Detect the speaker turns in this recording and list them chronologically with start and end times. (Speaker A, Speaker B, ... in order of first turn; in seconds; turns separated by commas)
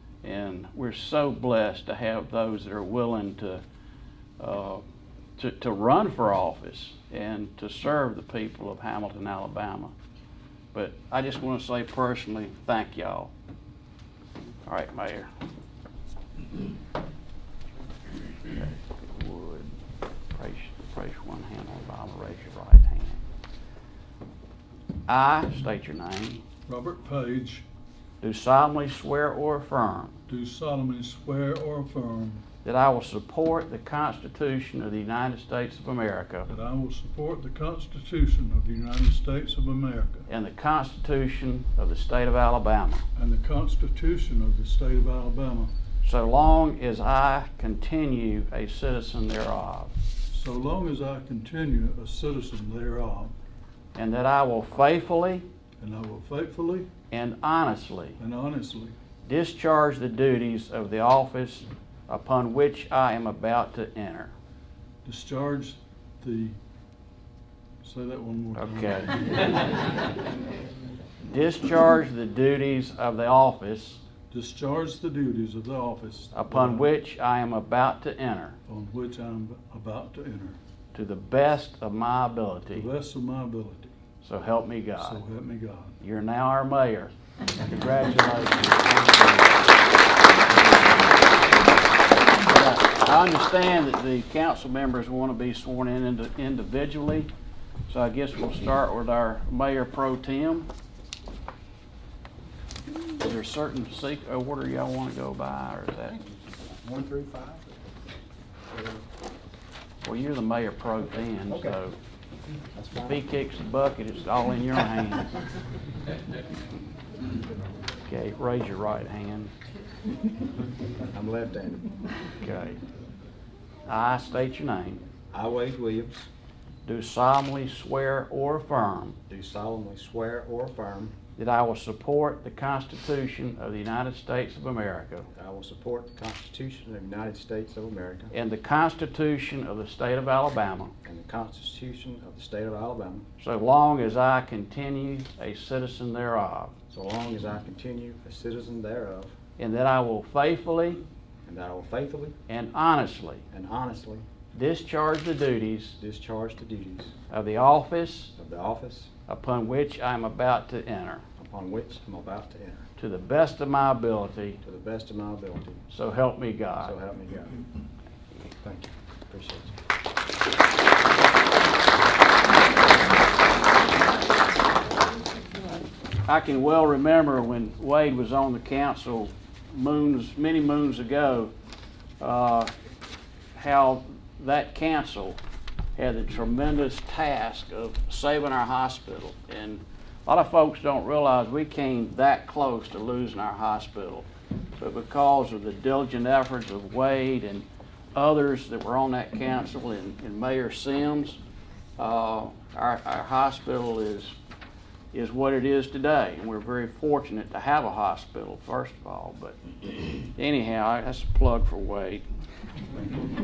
Speaker A: 0.2-3.6, Speaker A: 4.4-4.8, Speaker A: 5.4-9.9, Speaker A: 10.7-13.3, Speaker A: 14.7-15.3, Speaker A: 18.5-19.8, Speaker A: 20.3-23.2, Speaker A: 25.1-26.4, Speaker B: 26.7-27.7, Speaker A: 28.2-30.2, Speaker B: 30.3-32.5, Speaker A: 32.6-36.5, Speaker B: 36.5-40.3, Speaker A: 40.3-43.1, Speaker B: 43.2-45.7, Speaker A: 46.0-49.9, Speaker B: 50.3-53.3, Speaker A: 54.0-55.5, Speaker B: 55.8-56.9, Speaker A: 57.1-58.2, Speaker B: 58.2-59.0, Speaker A: 59.2-64.3, Speaker B: 65.0-66.6, Speaker B: 67.8-69.3, Speaker A: 68.6-69.2, Speaker A: 71.3-74.0, Speaker B: 74.3-76.9, Speaker A: 76.3-78.6, Speaker B: 78.7-80.6, Speaker A: 80.9-82.9, Speaker B: 82.7-84.0, Speaker A: 84.2-85.2, Speaker B: 85.0-86.0, Speaker A: 86.0-89.7, Speaker A: 90.5-91.6, Speaker A: 92.4-97.3, Speaker A: 97.9-100.7, Speaker A: 103.2-106.2, Speaker C: 106.1-107.8, Speaker C: 108.7-109.0, Speaker A: 110.0-112.0, Speaker C: 111.5-111.8, Speaker C: 112.7-113.2, Speaker A: 113.1-115.3, Speaker A: 118.1-119.5, Speaker C: 121.1-121.9, Speaker A: 122.4-122.8, Speaker A: 123.9-125.0, Speaker C: 125.3-126.3, Speaker A: 126.9-129.2, Speaker C: 129.3-131.1, Speaker A: 131.4-135.3, Speaker C: 135.3-138.3, Speaker A: 138.3-140.9, Speaker C: 141.0-143.3, Speaker A: 143.4-146.7, Speaker C: 146.9-149.3, Speaker A: 149.6-151.0, Speaker C: 151.4-152.4, Speaker A: 152.5-153.4, Speaker C: 153.5-154.2, Speaker A: 154.5-156.0, Speaker C: 156.0-157.1, Speaker A: 157.3-158.3, Speaker C: 158.4-159.1, Speaker A: 159.3-161.2, Speaker C: 161.4-162.9, Speaker A: 163.0-164.6, Speaker C: 164.6-165.8, Speaker A: 165.9-166.9, Speaker C: 166.8-167.6, Speaker C: 168.6-169.8, Speaker A: 176.2-181.5, Speaker A: 182.2-182.7, Speaker A: 183.6-185.4, Speaker A: 186.0-194.3, Speaker A: 194.8-201.4, Speaker A: 202.0-204.3, Speaker A: 205.1-209.6, Speaker A: 210.3-212.2